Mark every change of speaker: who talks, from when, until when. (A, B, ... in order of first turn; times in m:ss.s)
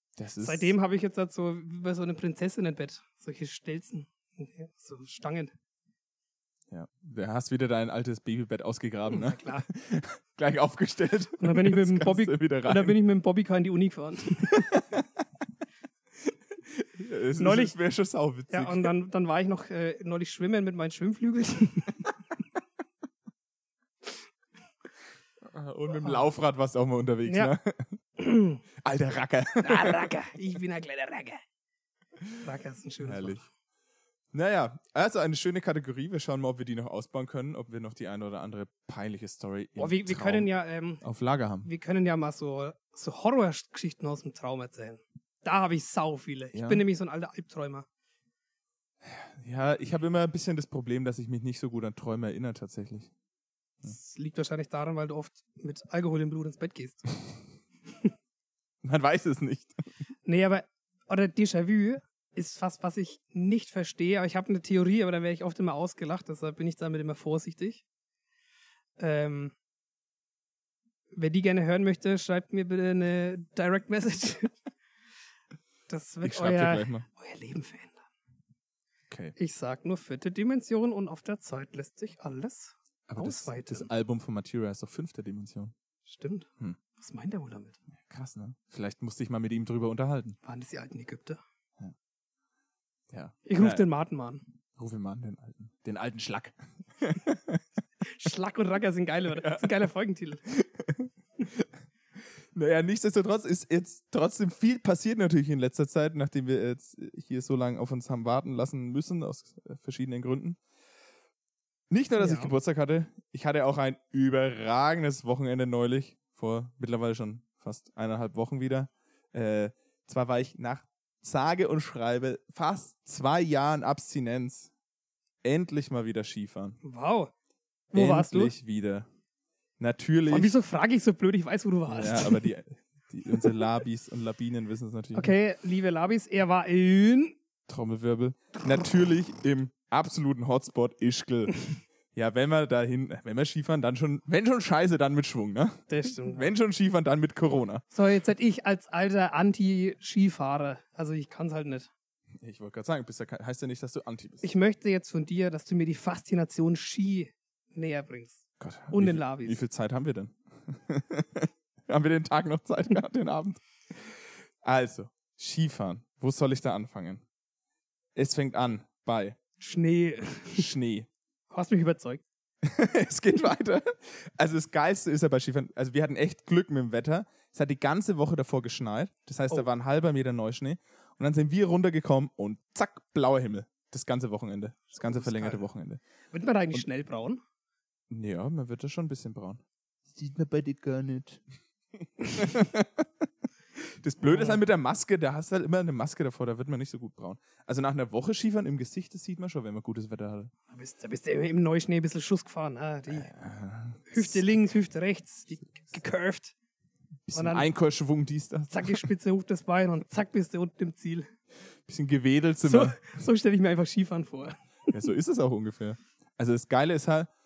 0:00.2-0:00.8 A
0:00.4-0:05.5 B
0:06.7-0:13.0 A
0:09.1-0:09.7 B
0:11.4-0:14.7 B
0:14.5-0:15.0 A
0:16.7-0:18.9 A
0:17.4-0:17.8 B
0:18.5-0:22.1 B
0:25.5-0:28.0 A
0:27.2-0:27.5 B
0:28.2-0:28.6 B
0:28.8-0:30.1 A
0:29.6-0:31.4 B
0:32.4-0:33.4 B
0:33.0-0:33.4 A
0:34.3-0:40.5 A
0:39.8-0:41.0 B
0:41.0-0:41.7 A
0:41.6-0:47.8 B
0:46.5-0:46.8 A
0:49.0-0:53.1 A
0:53.8-0:57.0 B
0:58.8-0:59.8 A
1:00.2-1:07.8 B
1:09.0-1:09.5 B
1:11.1-1:14.5 B
1:15.9-1:18.0 B
1:16.2-1:17.0 A
1:19.1-1:19.4 A
1:19.4-1:23.9 B
1:23.1-1:25.7 A
1:26.1-1:27.8 B
1:28.0-1:30.4 A
1:30.4-1:31.4 B
1:33.1-1:33.8 A
1:33.4-1:34.4 B
1:34.8-1:37.6 A
1:38.0-1:40.4 B
1:39.3-1:39.8 A
1:40.5-1:41.7 A
1:42.5-1:50.6 A
1:51.9-2:04.7 A
1:52.2-1:52.5 B
2:05.4-2:06.8 A
2:06.8-2:07.3 B
2:07.9-2:08.5 B
2:07.9-2:09.1 A
2:09.8-2:10.5 A
2:10.3-2:12.4 B
2:11.9-2:15.3 A
2:15.1-2:17.4 B
2:17.7-2:27.8 A
2:25.9-2:26.5 B
2:27.9-2:31.9 B
2:32.4-2:34.5 A
2:34.4-2:38.4 B
2:38.6-2:47.2 A
2:38.9-2:39.6 B
2:48.2-2:49.4 A
2:49.6-2:50.6 B
2:50.5-2:51.1 A
2:51.5-2:52.2 B
2:52.6-3:06.0 A
3:05.0-3:05.7 B
3:06.3-3:07.4 B
3:08.1-3:11.4 A
3:12.2-3:13.1 A
3:13.8-3:20.5 A
3:14.2-3:14.6 B
3:20.7-3:23.3 B
3:23.1-3:24.5 A
3:24.1-3:26.5 B
3:27.3-3:29.1 A
3:27.3-3:27.7 B
3:28.7-3:31.3 B
3:31.8-3:33.1 A
3:32.6-3:34.9 B
3:34.9-3:37.3 A